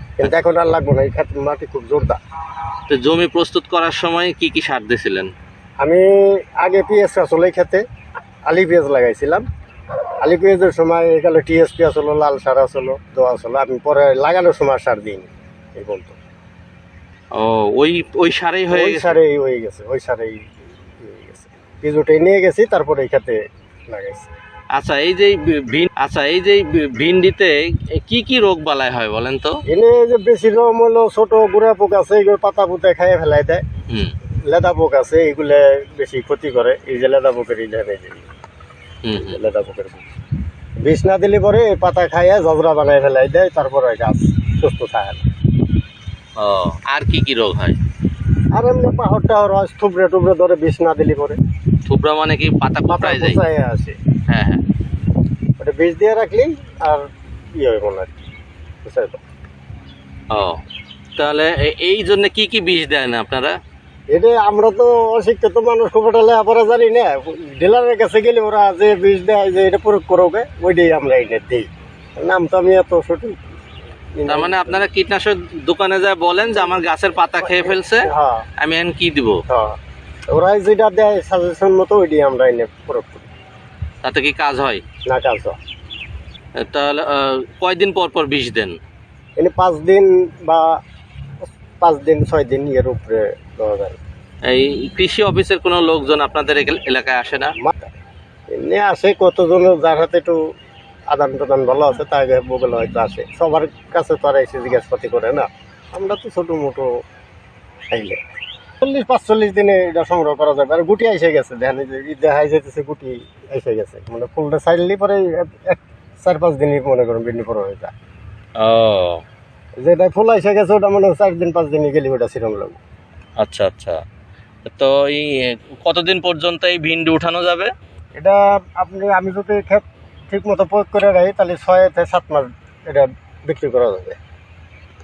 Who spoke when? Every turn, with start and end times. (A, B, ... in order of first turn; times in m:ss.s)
0:00.2-0:02.2 A
0:02.9-0:05.3 B
0:06.6-0:07.8 A
0:08.5-0:09.4 A
0:10.2-0:16.2 A
0:17.3-0:19.2 B
0:18.7-0:20.4 A
0:21.0-0:24.3 A
0:24.7-0:29.6 B
0:29.7-0:33.6 A
0:34.5-0:38.2 A
0:39.0-0:39.5 B
0:39.2-0:40.1 A
0:40.8-0:45.2 A
0:46.4-0:47.8 B
0:48.5-0:51.4 A
0:51.8-0:53.4 B
0:52.9-0:54.0 A
0:54.3-0:54.6 B
0:55.6-0:58.2 A
0:58.8-0:59.2 A
1:00.3-1:00.6 B
1:01.2-1:03.5 B
1:04.1-1:13.4 A
1:14.2-1:14.8 A
1:14.3-1:18.1 B
1:17.4-1:18.4 A
1:18.6-1:19.4 B
1:19.5-1:19.8 A
1:20.3-1:23.3 A
1:24.0-1:24.8 B
1:25.0-1:25.6 A
1:26.6-1:28.8 B
1:29.4-1:30.8 A
1:31.8-1:34.0 A
1:34.4-1:37.5 B
1:37.6-1:37.9 A
1:38.5-1:40.4 A
1:41.1-1:47.0 A
1:47.9-1:48.2 A
1:48.8-1:57.9 A
1:58.6-1:59.2 B
1:59.8-2:02.8 A
2:03.4-2:04.0 B
2:04.6-2:07.7 B
2:08.2-2:14.2 A